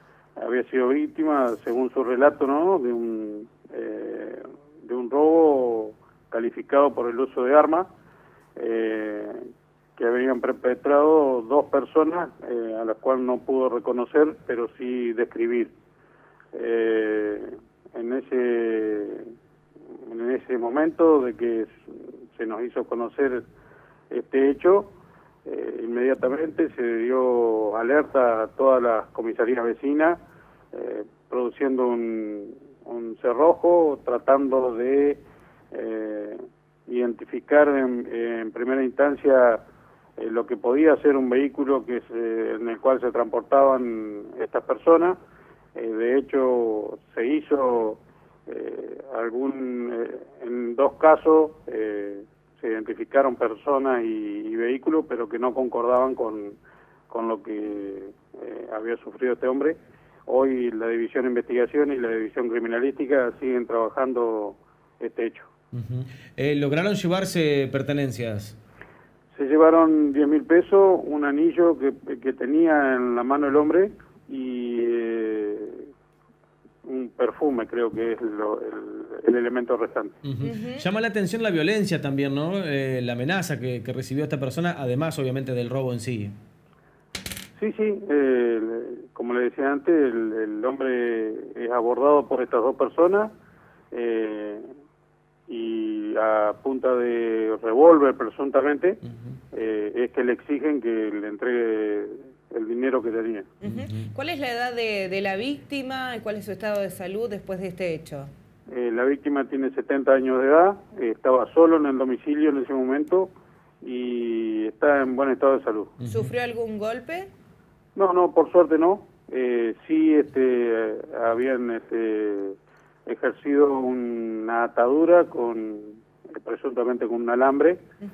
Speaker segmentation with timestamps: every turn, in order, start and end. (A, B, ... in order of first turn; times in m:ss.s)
0:00.4-0:07.9 A
0:08.6-0:15.7 A
0:16.5-0:19.3 A
0:20.0-0:23.4 A
0:24.1-0:24.9 A
0:25.4-0:30.2 A
0:30.7-0:39.6 A
0:40.2-0:45.2 A
0:45.7-0:56.6 A
0:57.1-1:05.5 A
1:05.7-1:08.6 B
1:09.3-1:15.9 A
1:16.8-1:20.2 A
1:20.2-1:26.4 B
1:20.4-1:20.8 C
1:27.6-1:33.3 A
1:33.9-1:34.7 A
1:35.5-1:39.0 A
1:39.5-1:43.5 A
1:43.6-1:48.3 C
1:48.7-1:56.0 A
1:56.1-1:57.3 C
1:58.0-2:07.8 A